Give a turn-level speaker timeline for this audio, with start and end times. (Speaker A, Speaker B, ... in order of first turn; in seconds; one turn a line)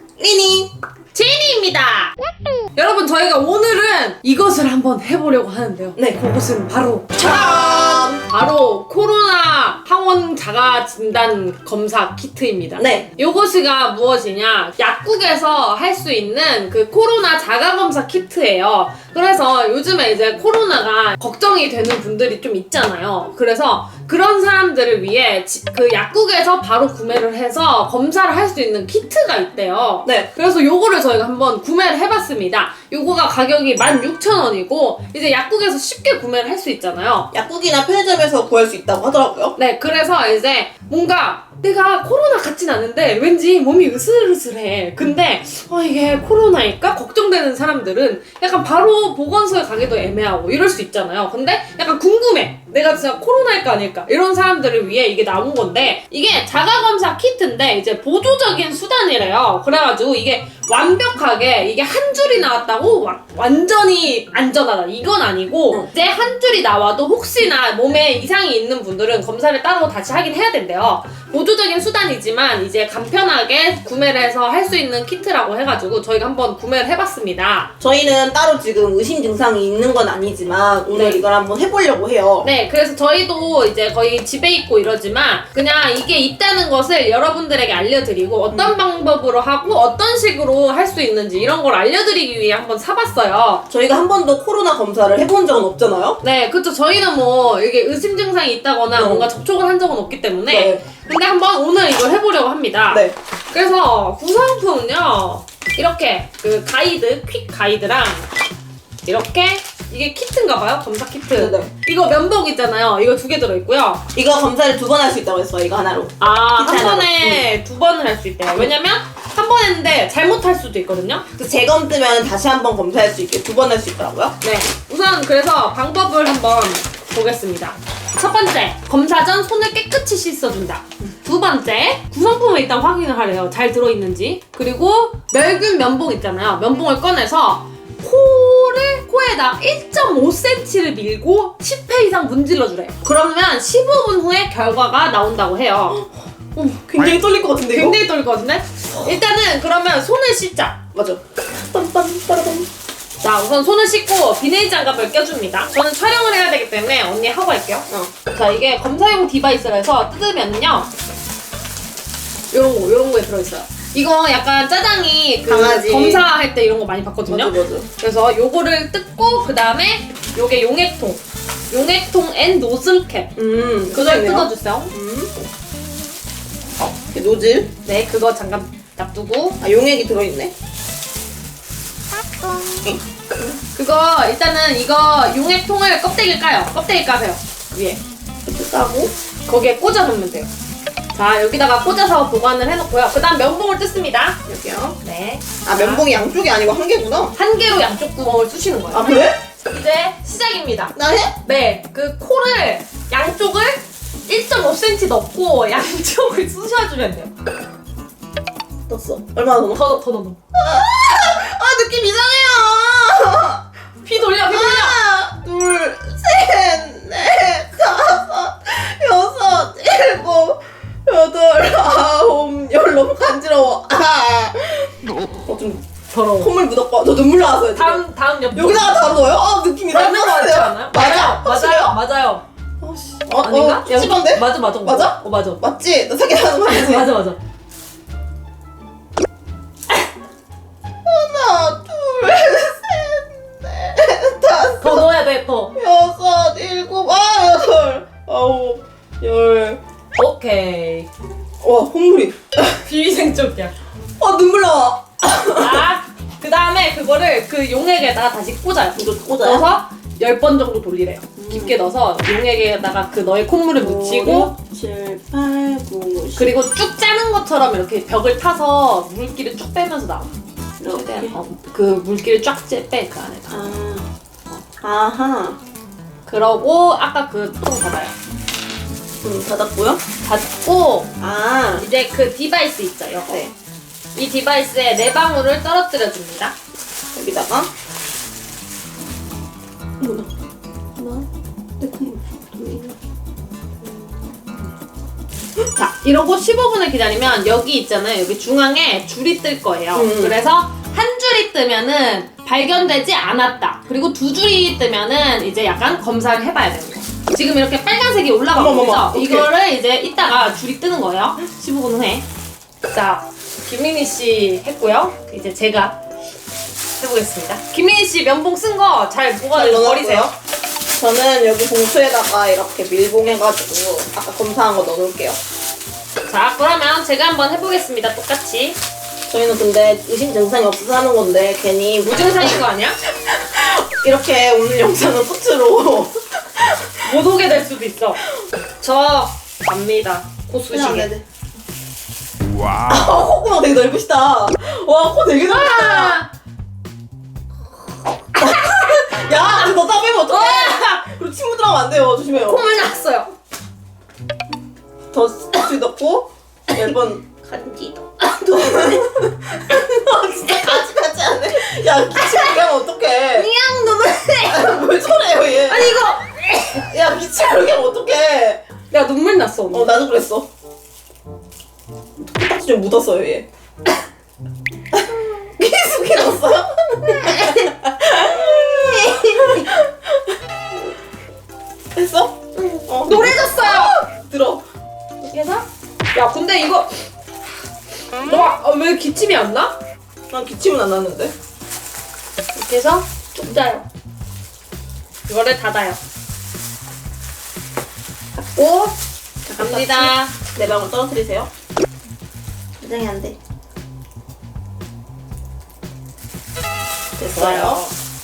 Speaker A: 0.2-0.7
Speaker B: 1.1-2.1
Speaker B: 2.8-37.3
Speaker A: 6.0-6.2
Speaker A: 7.1-8.2
Speaker A: 12.8-13.1
Speaker A: 37.3-39.5
Speaker B: 39.5-77.7
Speaker A: 77.8-82.5
Speaker B: 80.9-81.2
Speaker B: 82.4-93.6
Speaker A: 93.7-96.2
Speaker B: 96.2-108.3
Speaker A: 99.0-99.3
Speaker A: 100.5-100.8
Speaker B: 109.0-114.0
Speaker A: 111.4-111.7
Speaker A: 114.1-117.5
Speaker B: 116.2-121.2
Speaker A: 121.3-124.4
Speaker B: 124.4-146.0
Speaker A: 146.6-148.0
Speaker B: 147.6-150.8
Speaker A: 150.9-152.7
Speaker B: 153.2-160.9
Speaker B: 162.5-173.3
Speaker A: 165.4-166.2
Speaker A: 167.2-167.9
Speaker A: 173.3-175.4
Speaker B: 173.9-174.9
Speaker A: 176.8-177.7
Speaker B: 177.8-179.6
Speaker A: 179.6-180.5
Speaker A: 182.8-183.6
Speaker B: 183.7-188.0
Speaker A: 188.4-189.1
Speaker B: 189.4-190.5
Speaker B: 191.1-194.4
Speaker A: 194.5-195.0
Speaker B: 195.0-196.1
Speaker A: 195.6-197.3
Speaker B: 197.3-207.3
Speaker A: 198.9-199.4
Speaker A: 200.9-201.4
Speaker A: 208.9-209.9
Speaker B: 209.7-210.4
Speaker A: 210.5-213.6
Speaker B: 214.0-215.0
Speaker A: 214.5-224.9
Speaker A: 225.4-225.8
Speaker B: 226.1-226.5
Speaker A: 226.4-232.0
Speaker B: 227.7-229.0
Speaker B: 229.9-232.4
Speaker A: 232.8-237.1
Speaker B: 233.4-235.6
Speaker B: 236.7-237.4
Speaker A: 241.0-245.1
Speaker B: 244.8-245.7
Speaker A: 245.7-249.8
Speaker B: 250.2-251.1
Speaker A: 251.6-252.8
Speaker B: 252.8-253.7
Speaker A: 254.2-255.9
Speaker B: 255.6-264.5
Speaker A: 258.9-259.7
Speaker A: 261.4-261.9
Speaker A: 263.8-266.5
Speaker B: 266.4-270.3
Speaker A: 270.8-271.3
Speaker B: 270.9-273.6
Speaker A: 273.5-274.1
Speaker A: 274.8-275.6
Speaker B: 276.2-278.1
Speaker A: 279.2-280.0
Speaker B: 280.2-281.1
Speaker A: 281.2-281.9
Speaker B: 281.7-283.4
Speaker A: 283.3-283.5
Speaker B: 284.1-286.5
Speaker A: 287.1-287.7
Speaker A: 290.0-290.3
Speaker A: 291.0-291.2
Speaker A: 291.8-292.9
Speaker B: 295.8-312.2
Speaker A: 299.9-300.4
Speaker A: 308.5-309.5
Speaker B: 312.8-315.9
Speaker B: 317.0-320.3
Speaker A: 319.5-320.3
Speaker A: 320.9-325.4
Speaker B: 326.2-328.8
Speaker A: 329.3-332.6
Speaker B: 332.0-333.0
Speaker A: 333.3-337.2
Speaker B: 337.1-338.2
Speaker B: 338.8-341.1
Speaker A: 340.7-341.2
Speaker A: 342.9-346.2
Speaker B: 345.4-346.3
Speaker B: 348.3-349.7
Speaker A: 348.3-352.6
Speaker B: 350.3-351.1
Speaker B: 352.4-353.3
Speaker A: 355.1-357.2
Speaker B: 357.4-360.8
Speaker A: 358.5-363.5
Speaker B: 362.1-362.6
Speaker B: 363.3-364.7
Speaker A: 364.4-366.1
Speaker B: 365.7-366.8
Speaker A: 366.7-368.6
Speaker B: 368.9-369.9
Speaker A: 369.7-370.5
Speaker A: 372.2-373.4
Speaker A: 374.9-380.2
Speaker B: 377.1-377.7
Speaker A: 381.9-384.6
Speaker B: 383.0-383.9
Speaker B: 385.2-386.9
Speaker B: 388.2-389.8
Speaker A: 390.3-391.3
Speaker B: 392.5-393.9
Speaker B: 395.3-396.0
Speaker B: 398.6-398.9
Speaker A: 399.4-401.5
Speaker B: 399.5-400.3
Speaker A: 402.8-403.4
Speaker A: 407.2-407.9
Speaker B: 407.3-407.9